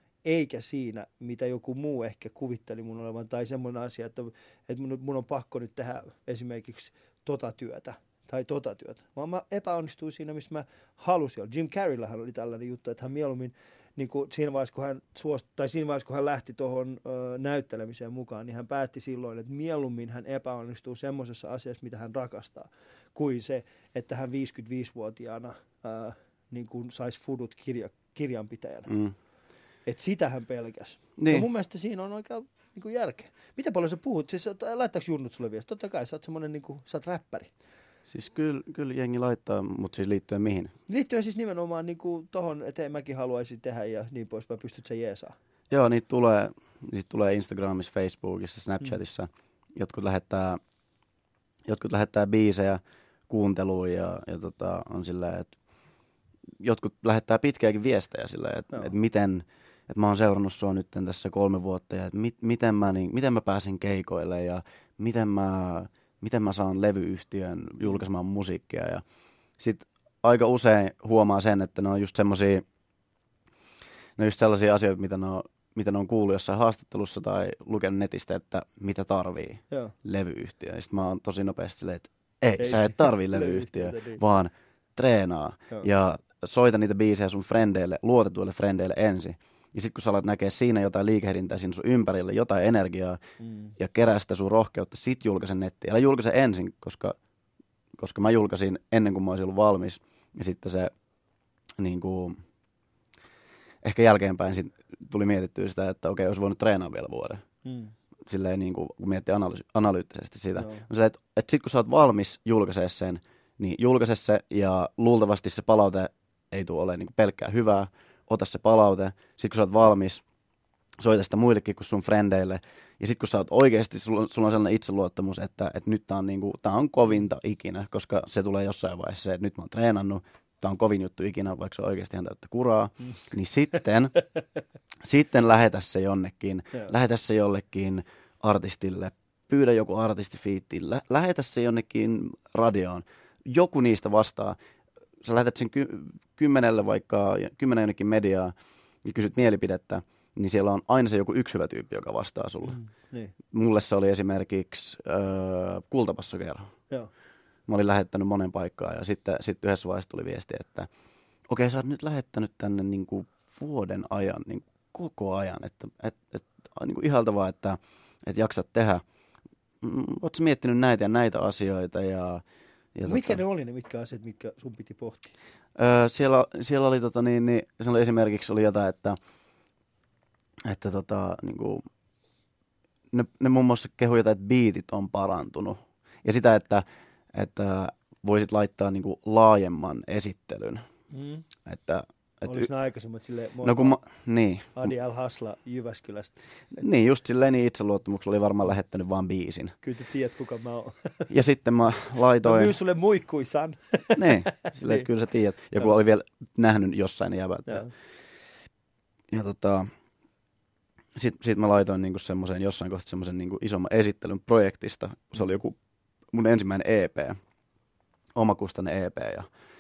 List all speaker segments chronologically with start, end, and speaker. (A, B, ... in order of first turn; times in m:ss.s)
0:00.2-0:28.9 A
0:28.9-0:29.2 B
0:29.9-0:37.5 A
0:31.2-0:31.5 B
0:38.1-0:40.7 B
0:40.9-0:45.4 A
0:45.7-0:50.6 B
0:51.7-0:55.6 B
0:56.6-1:09.0 B
1:09.6-1:12.6 B
1:14.2-1:33.2 B
1:22.6-1:24.2 A
1:33.4-1:33.8 A
1:33.8-1:37.2 B
1:38.0-1:40.9 B
1:41.8-1:42.4 B
1:43.8-1:47.4 B
1:47.6-1:47.9 A
1:48.3-2:00.2 B
1:50.6-1:50.9 A
2:01.0-2:14.1 B
2:15.0-2:24.6 B
2:25.2-2:32.8 B
2:32.6-2:33.3 A
2:33.5-2:36.7 B
2:37.7-2:40.9 B
2:41.5-2:49.0 B
2:49.8-2:52.4 B
2:53.0-2:53.4 B
2:53.1-2:55.3 A
2:55.8-2:59.2 B
3:00.6-3:01.8 B
3:03.1-3:10.8 B
3:11.1-3:11.4 A
3:11.6-3:12.7 B
3:12.4-3:14.0 A
3:13.6-3:14.9 B
3:14.8-3:16.4 A
3:16.8-3:19.8 B
3:19.8-3:21.3 A
3:21.3-3:22.8 B
3:22.4-3:25.1 A
3:24.2-3:27.9 B
3:27.7-3:27.9 A
3:29.3-3:29.9 B
3:31.2-3:35.8 B
3:36.3-3:37.4 B
3:38.4-3:39.5 B